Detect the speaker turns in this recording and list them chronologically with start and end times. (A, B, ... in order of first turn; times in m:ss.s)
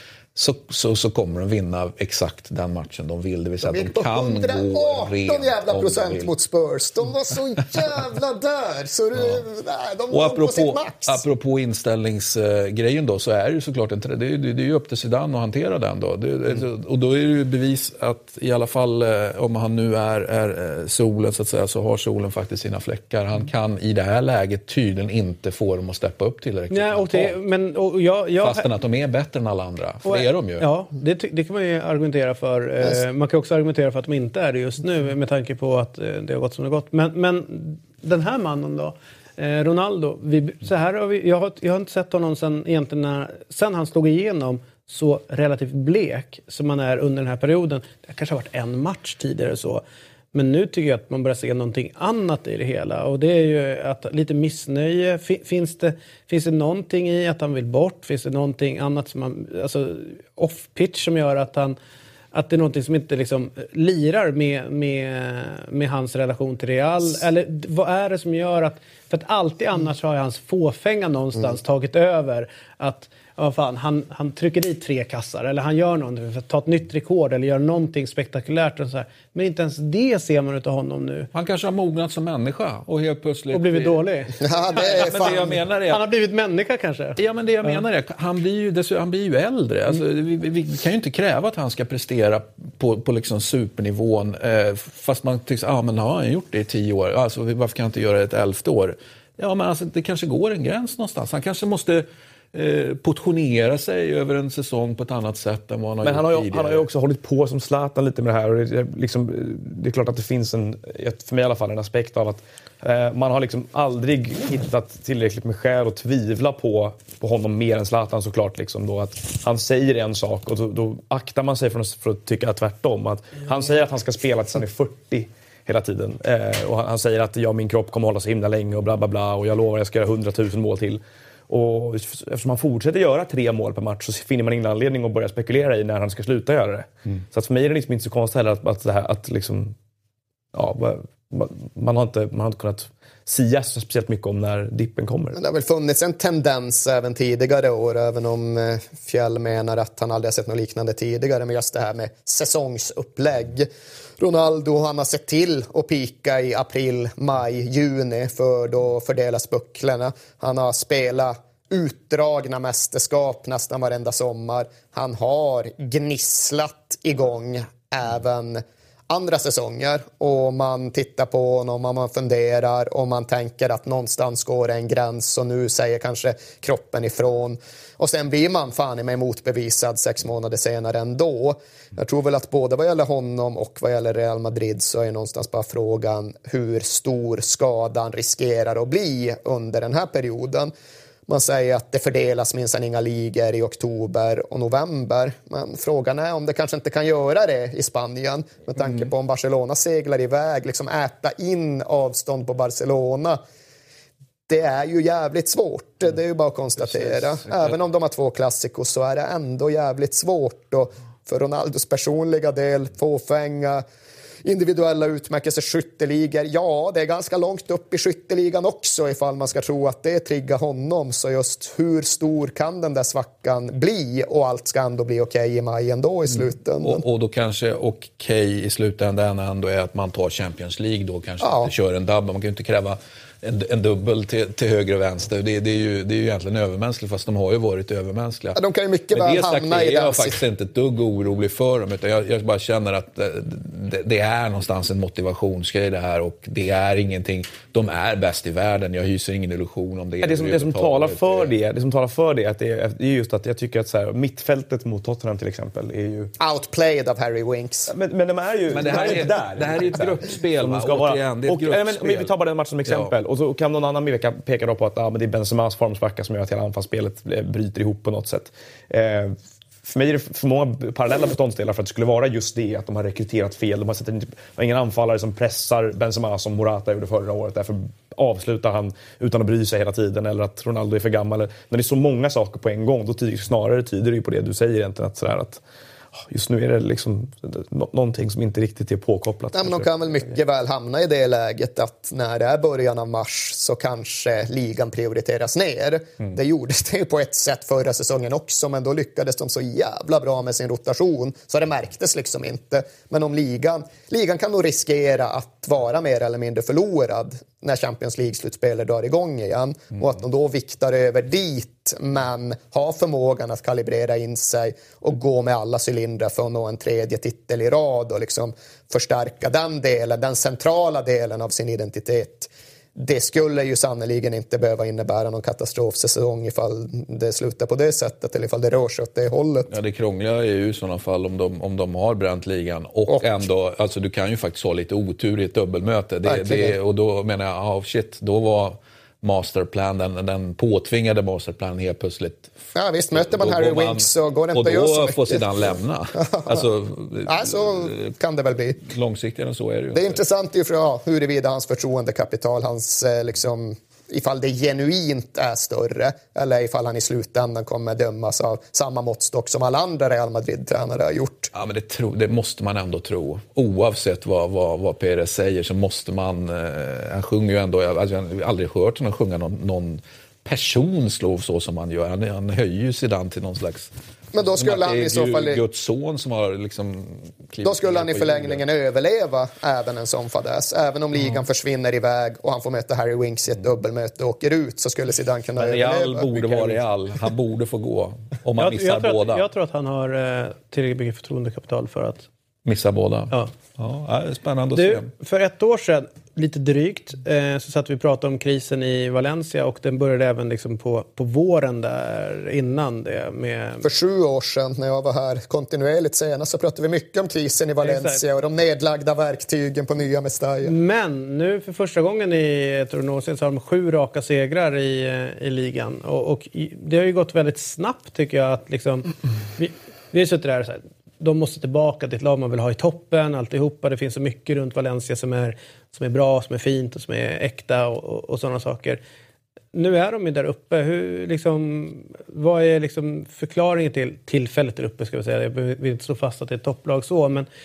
0:00.4-0:06.3 A
0:03.6-0:11.2 B
0:09.2-0:09.4 A
0:10.1-0:27.4 A
0:26.7-0:28.7 C
0:28.4-0:30.7 A
0:30.0-0:49.8 C
0:50.3-1:01.8 C
1:02.3-1:21.3 C
1:21.3-1:24.0 A
1:23.5-1:27.8 C
1:24.4-1:25.6 B
1:24.8-1:26.0 A
1:27.2-1:46.9 A
1:46.0-2:19.8 D
2:20.5-2:25.4 D
2:25.4-2:33.7 B
2:34.2-3:10.7 B
3:11.3-3:23.4 B
3:24.5-3:33.8 B
3:26.8-3:27.8 A
3:34.4-3:47.0 B
3:46.3-3:58.6 A
3:51.4-3:51.7 B
3:58.6-4:00.4 B
3:59.1-4:11.5 A
4:10.2-4:16.3 D
4:16.4-4:17.9 B
4:17.9-4:45.6 D
4:18.7-4:23.1 A
4:46.1-4:49.9 D
4:49.5-5:29.7 B
5:29.7-5:42.6 A
5:36.2-5:36.8 B
5:42.8-5:46.7 B
5:43.1-5:48.1 A
5:47.2-5:48.9 B
5:48.8-5:50.2 A
5:49.9-6:01.5 B
6:01.5-6:18.6 A
6:14.3-6:15.6 B
6:17.6-6:26.8 B
6:25.6-6:29.4 A
6:28.6-6:32.3 C
6:32.7-6:35.1 A
6:34.7-6:43.9 C
6:43.8-6:50.8 B
6:47.8-6:48.2 C
6:50.6-7:09.0 C
7:09.7-7:17.5 C